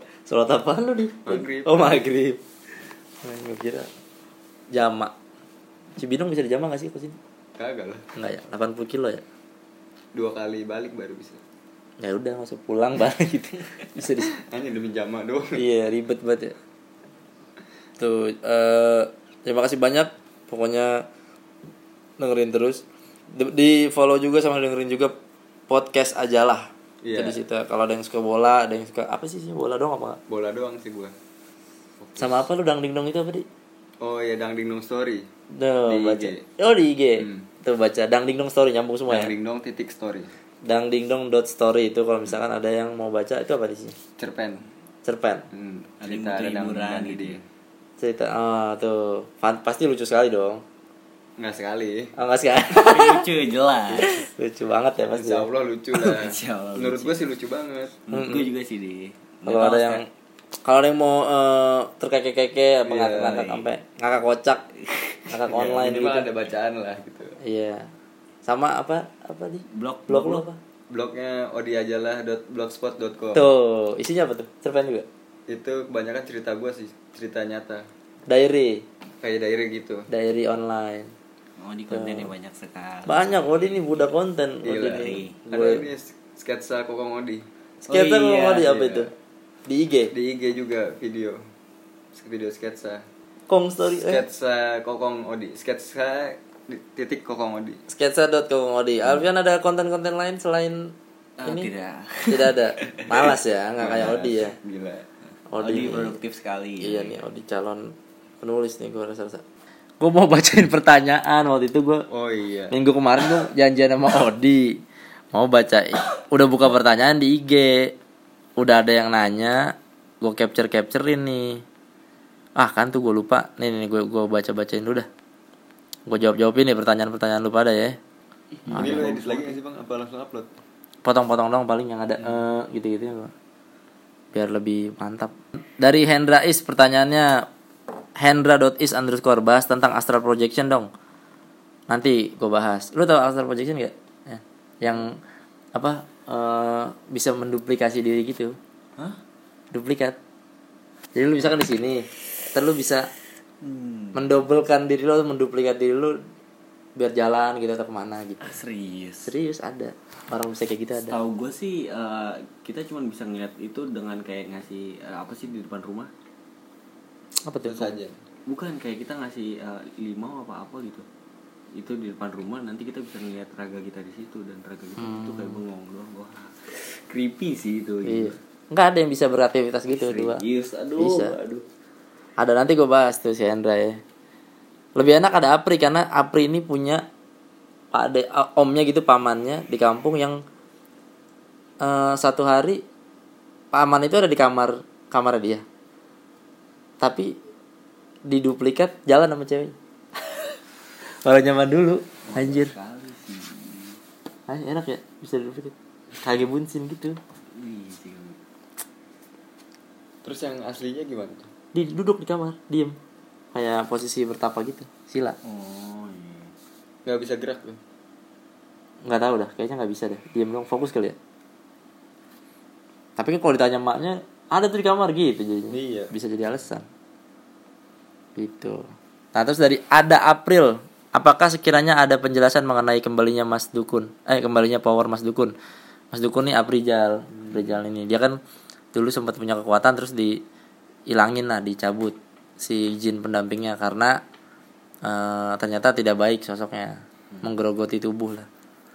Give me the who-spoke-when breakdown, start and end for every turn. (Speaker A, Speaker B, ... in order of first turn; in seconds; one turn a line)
Speaker A: 0.3-2.4
Speaker B: 1.2-2.1
Speaker A: 3.2-3.9
Speaker A: 4.7-5.1
Speaker A: 6.0-7.2
Speaker B: 7.6-8.1
Speaker A: 8.2-9.2
Speaker B: 10.2-11.4
Speaker A: 12.0-14.3
Speaker B: 14.4-15.6
Speaker A: 15.6-16.6
Speaker A: 18.0-21.1
Speaker A: 22.2-25.1
Speaker A: 25.7-30.2
Speaker B: 27.0-27.4
Speaker B: 30.3-31.1
Speaker B: 32.0-32.4
Speaker A: 32.2-33.5
Speaker B: 34.0-35.3
Speaker A: 35.5-39.3
Speaker B: 35.9-36.4
Speaker B: 37.2-37.5
Speaker B: 39.1-40.3
Speaker A: 40.7-44.0
Speaker B: 44.2-44.7
Speaker A: 45.0-45.5
Speaker B: 45.5-47.4
Speaker C: 46.0-47.4
Speaker A: 48.0-50.6
Speaker B: 51.4-52.1
Speaker A: 52.2-53.3
Speaker C: 52.7-54.2
Speaker A: 53.9-55.5
Speaker B: 55.1-58.0
Speaker C: 56.0-57.2
Speaker C: 58.1-60.0
Speaker A: 58.1-58.5
Speaker A: 59.5-60.0
Speaker A: 60.6-64.6
Speaker B: 62.9-63.5
Speaker C: 63.4-63.6
Speaker C: 64.8-65.3
Speaker A: 65.3-66.3
Speaker B: 65.5-67.4
Speaker A: 67.4-67.9
Speaker A: 68.5-70.6
Speaker C: 69.7-70.5
Speaker B: 70.9-73.5
Speaker A: 73.3-75.1
Speaker B: 75.5-77.8
Speaker A: 78.3-78.8
Speaker B: 79.2-80.1
Speaker A: 80.1-81.1
Speaker C: 81.6-84.1
Speaker A: 81.9-82.3
Speaker A: 83.1-85.8
Speaker B: 84.6-87.4
Speaker C: 84.8-85.4
Speaker C: 87.9-88.8
Speaker A: 87.9-89.1
Speaker B: 88.6-89.1
Speaker A: 89.7-90.1
Speaker B: 90.1-91.4
Speaker B: 92.1-93.0
Speaker A: 93.5-94.2
Speaker B: 93.9-97.8
Speaker A: 97.9-100.9
Speaker C: 101.4-103.3
Speaker A: 101.5-101.7
Speaker A: 102.3-104.6
Speaker B: 103.8-105.1
Speaker A: 105.5-106.2
Speaker C: 105.6-107.2
Speaker A: 106.8-109.4
Speaker A: 110.0-112.0
Speaker B: 112.1-112.7
Speaker A: 112.7-114.8
Speaker A: 115.3-117.9
Speaker A: 118.6-121.6
Speaker A: 122.6-125.1
Speaker A: 126.1-128.0
Speaker C: 128.6-129.2
Speaker A: 128.7-129.4
Speaker B: 128.7-130.5
Speaker A: 131.1-133.3
Speaker A: 134.3-137.4
Speaker A: 138.2-140.9
Speaker A: 141.9-145.2
Speaker A: 145.8-148.6
Speaker A: 149.7-150.2
Speaker A: 151.2-153.1
Speaker C: 153.6-154.5
Speaker A: 154.2-156.2
Speaker A: 157.0-158.6
Speaker C: 158.4-159.3
Speaker A: 159.2-161.2
Speaker C: 161.1-166.1
Speaker A: 167.4-168.0
Speaker B: 167.6-168.2
Speaker C: 168.5-171.1
Speaker C: 171.7-178.4
Speaker A: 175.0-175.6
Speaker A: 178.1-180.4
Speaker C: 179.9-181.7
Speaker A: 181.0-181.3
Speaker A: 182.4-184.0
Speaker A: 185.0-187.0
Speaker A: 187.9-190.4
Speaker A: 191.8-192.8
Speaker A: 193.7-195.6
Speaker A: 197.0-197.3
Speaker A: 198.3-199.8
Speaker A: 201.2-202.7
Speaker C: 202.3-204.0
Speaker A: 204.5-207.2
Speaker C: 207.6-208.4
Speaker B: 210.2-211.5
Speaker A: 211.7-213.0
Speaker A: 213.5-215.4
Speaker C: 215.4-216.5
Speaker B: 217.1-217.8
Speaker A: 219.1-221.2
Speaker A: 223.2-226.8
Speaker B: 225.7-226.1
Speaker A: 228.4-228.8
Speaker A: 229.3-235.5
Speaker A: 236.1-238.4
Speaker C: 237.4-237.8
Speaker A: 238.9-240.4
Speaker A: 241.1-244.2
Speaker A: 245.1-248.5